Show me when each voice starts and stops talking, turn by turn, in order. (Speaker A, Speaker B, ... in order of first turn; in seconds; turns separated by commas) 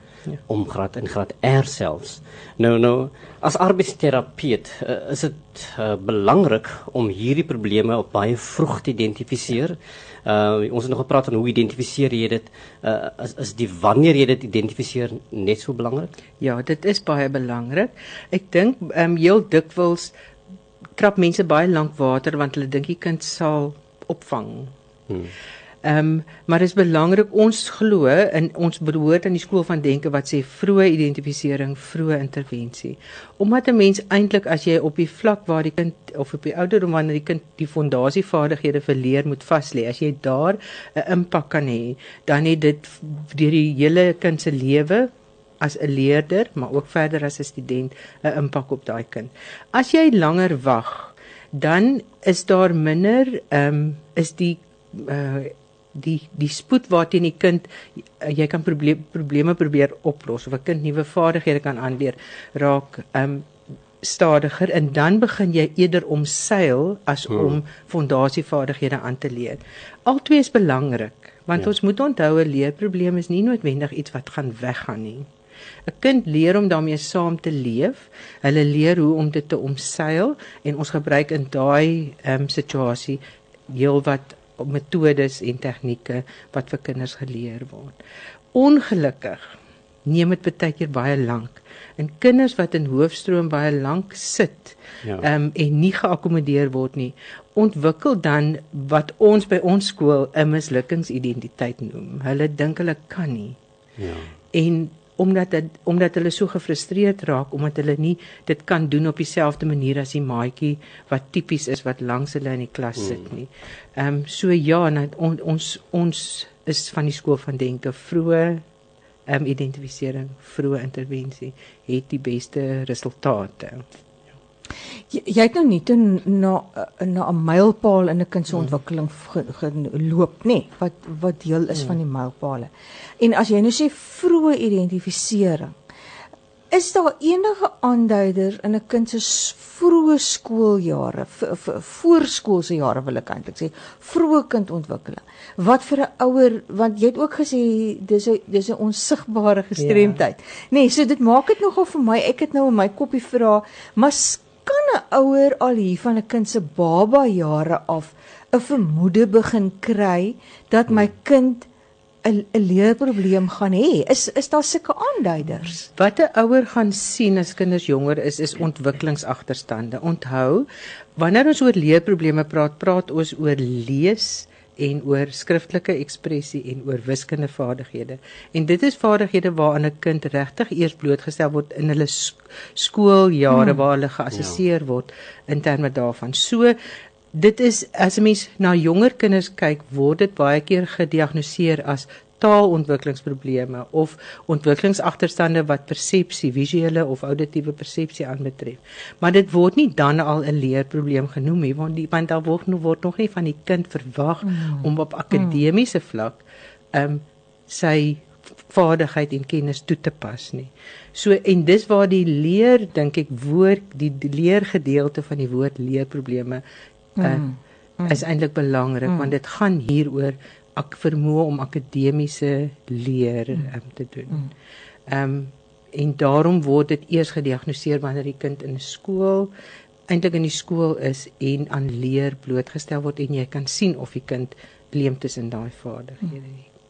Speaker A: 0.5-16.1, Speaker B: 16.4-20.1, Speaker B: 21.0-24.7, Speaker B: 25.8-63.5, Speaker B: 64.0-75.3, Speaker B: 75.9-88.0, Speaker B: 88.5-103.6, Speaker A: 104.0-104.3, Speaker B: 104.5-118.6, Speaker B: 119.3-123.8, Speaker C: 125.1-135.7, Speaker C: 136.7-161.7, Speaker B: 149.8-150.2, Speaker C: 162.2-165.9, Speaker B: 165.9-186.8, Speaker B: 187.3-206.4, Speaker B: 206.9-216.6, Speaker B: 217.2-217.5, Speaker C: 217.3-218.1, Speaker B: 218.1-224.5, Speaker B: 225.1-229.5, Speaker B: 230.1-236.7